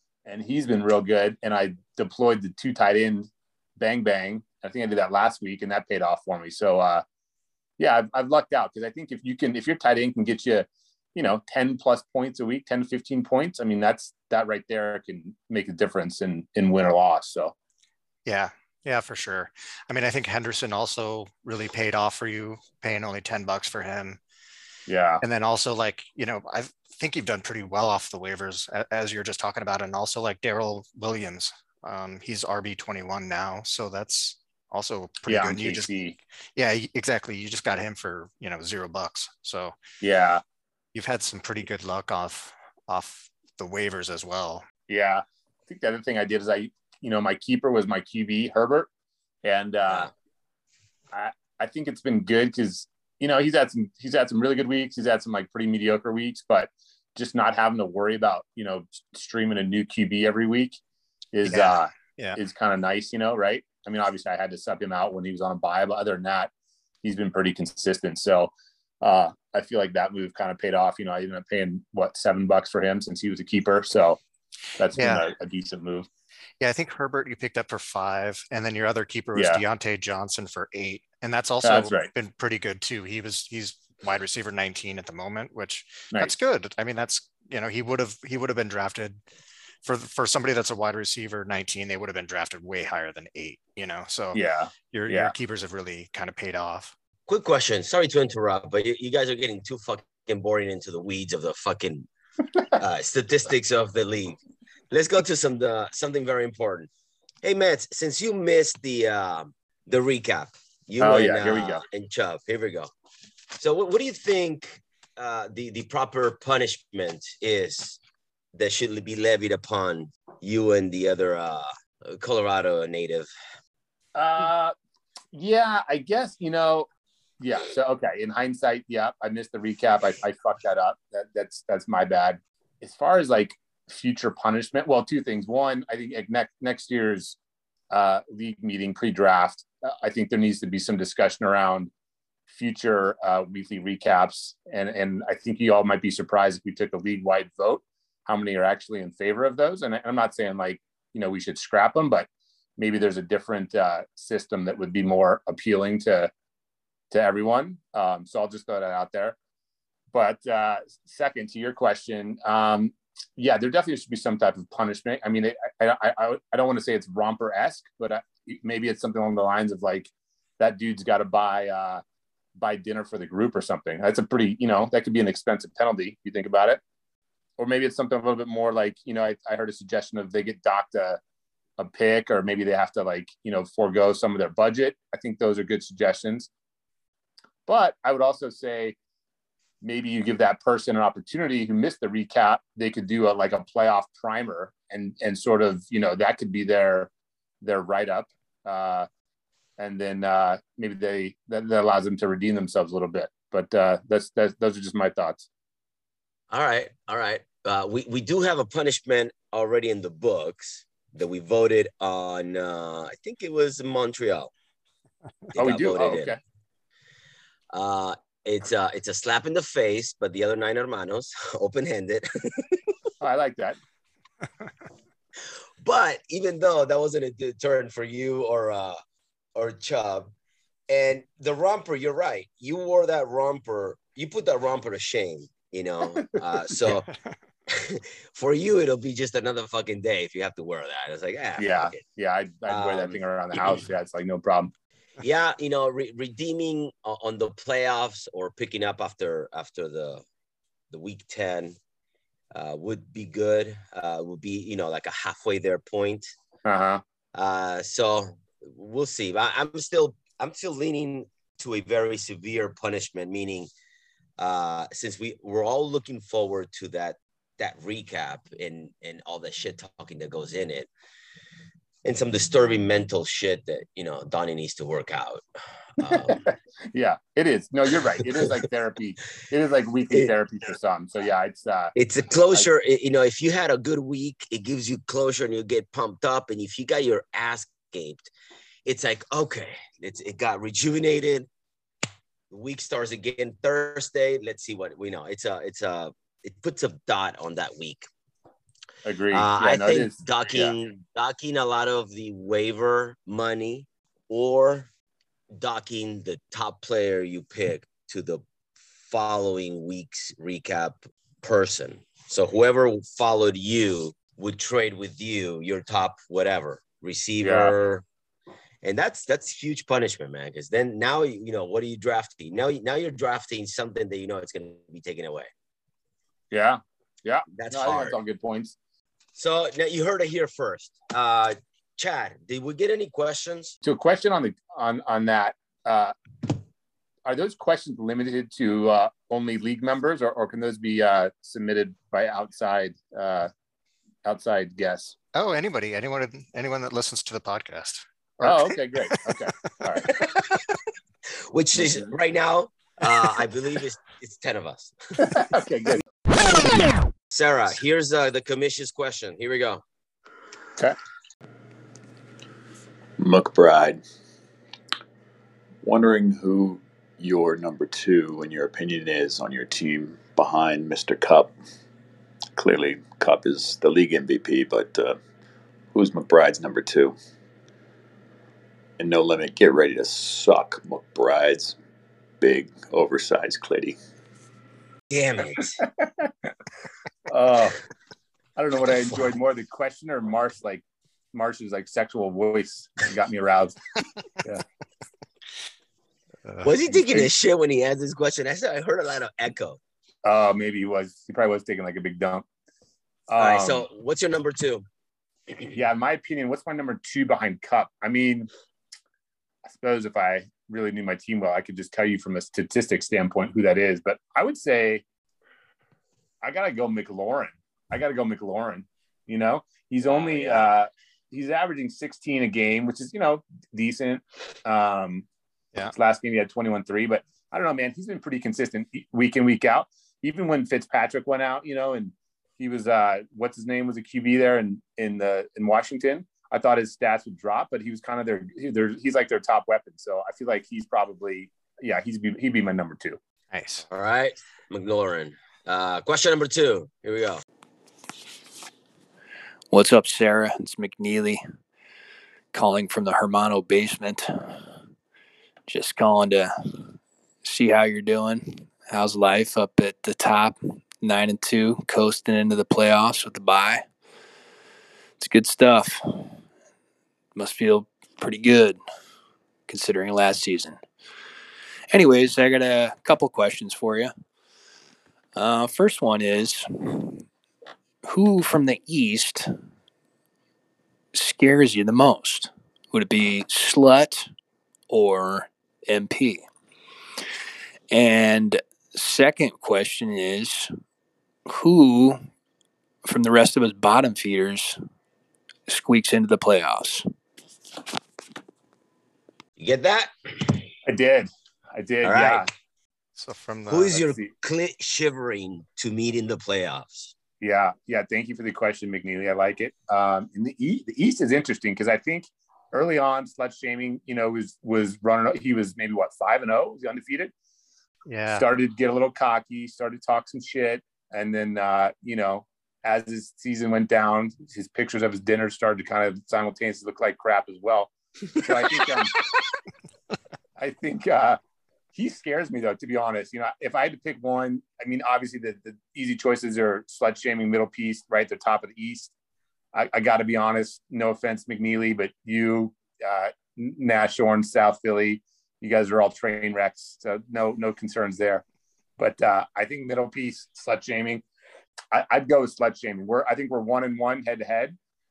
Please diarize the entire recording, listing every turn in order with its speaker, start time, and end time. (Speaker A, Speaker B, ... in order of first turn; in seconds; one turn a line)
Speaker A: 0.3-7.0
Speaker A: 7.8-17.5
Speaker B: 18.3-24.2
Speaker A: 24.9-25.2
Speaker B: 25.2-35.9
Speaker A: 35.3-36.2
Speaker B: 36.6-39.8
Speaker A: 40.0-40.4
Speaker B: 40.9-44.6
Speaker A: 44.9-48.9
Speaker A: 49.4-50.1
Speaker A: 51.1-60.8
Speaker A: 61.3-66.5
Speaker B: 61.5-62.4
Speaker A: 67.0-74.2
Speaker A: 74.8-76.1
Speaker B: 75.0-75.2
Speaker B: 76.6-89.2
Speaker A: 79.4-79.6
Speaker A: 81.6-82.1
Speaker B: 89.8-96.9
Speaker A: 94.3-95.3
Speaker C: 97.3-102.1
Speaker C: 102.8-104.4
Speaker C: 104.9-106.9
Speaker C: 107.4-112.9
Speaker A: 111.0-111.8
Speaker C: 113.5-118.0
Speaker C: 118.5-123.3
Speaker A: 124.2-124.7
Speaker A: 125.3-126.9
Speaker A: 127.4-137.4
Speaker A: 137.9-141.9
Speaker A: 142.5-152.3
Speaker A: 152.8-156.3
Speaker A: 157.1-159.3
Speaker A: 160.1-172.0
Speaker A: 172.6-176.8
Speaker A: 177.6-181.2
Speaker A: 181.8-186.5
Speaker A: 187.7-189.0
Speaker A: 189.8-197.1
Speaker A: 197.6-199.1
Speaker A: 199.8-205.4
Speaker C: 206.5-214.5
Speaker C: 215.5-216.3
Speaker A: 215.6-216.4
Speaker C: 217.7-222.9
Speaker A: 223.2-223.8
Speaker C: 225.8-229.0
Speaker C: 229.6-230.3
Speaker C: 230.9-237.1
Speaker C: 237.7-242.0
Speaker A: 241.6-244.7
Speaker C: 242.7-243.8
Speaker C: 245.2-250.2
Speaker C: 250.9-251.8
Speaker C: 252.5-256.3
Speaker A: 256.6-257.0
Speaker C: 257.4-263.7
Speaker C: 264.4-270.9
Speaker C: 272.0-275.4
Speaker C: 276.0-276.4
Speaker A: 276.1-281.9
Speaker C: 278.2-278.5
Speaker C: 282.0-288.3
Speaker C: 288.9-291.5
Speaker C: 292.5-298.1
Speaker A: 299.1-300.8
Speaker C: 299.3-304.9
Speaker C: 305.5-308.4
Speaker C: 309.1-318.1
Speaker A: 317.4-317.7
Speaker C: 318.8-325.5
Speaker A: 326.5-328.7
Speaker C: 327.6-328.2
Speaker C: 329.4-333.8
Speaker A: 333.8-336.1
Speaker A: 337.3-343.5
Speaker A: 344.2-345.1
Speaker B: 345.4-349.3
Speaker A: 348.4-350.1
Speaker C: 350.1-350.6
Speaker C: 351.4-355.3
Speaker A: 355.2-356.1
Speaker C: 357.3-359.8
Speaker D: 363.2-364.0
Speaker D: 365.8-371.6
Speaker D: 372.6-375.2
Speaker D: 375.9-377.1
Speaker D: 379.0-381.8
Speaker D: 382.4-384.0
Speaker C: 385.1-385.8
Speaker A: 386.0-386.3
Speaker A: 387.3-387.8
Speaker A: 388.6-393.8
Speaker C: 396.6-399.8
Speaker A: 400.2-402.4
Speaker A: 403.3-403.9
Speaker C: 403.4-404.9
Speaker A: 405.7-408.5
Speaker A: 409.7-415.0
Speaker A: 416.4-425.3
Speaker C: 420.1-420.7
Speaker A: 425.9-443.2
Speaker B: 443.5-443.9
Speaker C: 443.9-447.4
Speaker E: 449.7-451.4
Speaker E: 452.5-454.8
Speaker E: 455.7-463.9
Speaker E: 465.2-466.4
Speaker E: 467.4-468.8
Speaker E: 469.7-470.8
Speaker E: 471.9-474.1
Speaker E: 475.4-477.2
Speaker E: 478.1-479.5
Speaker E: 481.1-484.3
Speaker E: 484.9-486.4
Speaker E: 487.9-490.7
Speaker E: 491.5-492.2
Speaker E: 493.1-494.8
Speaker E: 495.7-497.0
Speaker C: 499.6-500.7
Speaker A: 500.9-502.5
Speaker C: 502.0-502.4
Speaker B: 503.2-504.0
Speaker C: 503.7-507.1
Speaker A: 504.0-504.3
Speaker A: 507.4-517.3
Speaker B: 518.1-518.5
Speaker A: 518.3-529.2
Speaker A: 530.6-531.4
Speaker A: 531.9-539.1
Speaker A: 539.7-548.4
Speaker A: 549.0-551.2
Speaker A: 551.9-554.8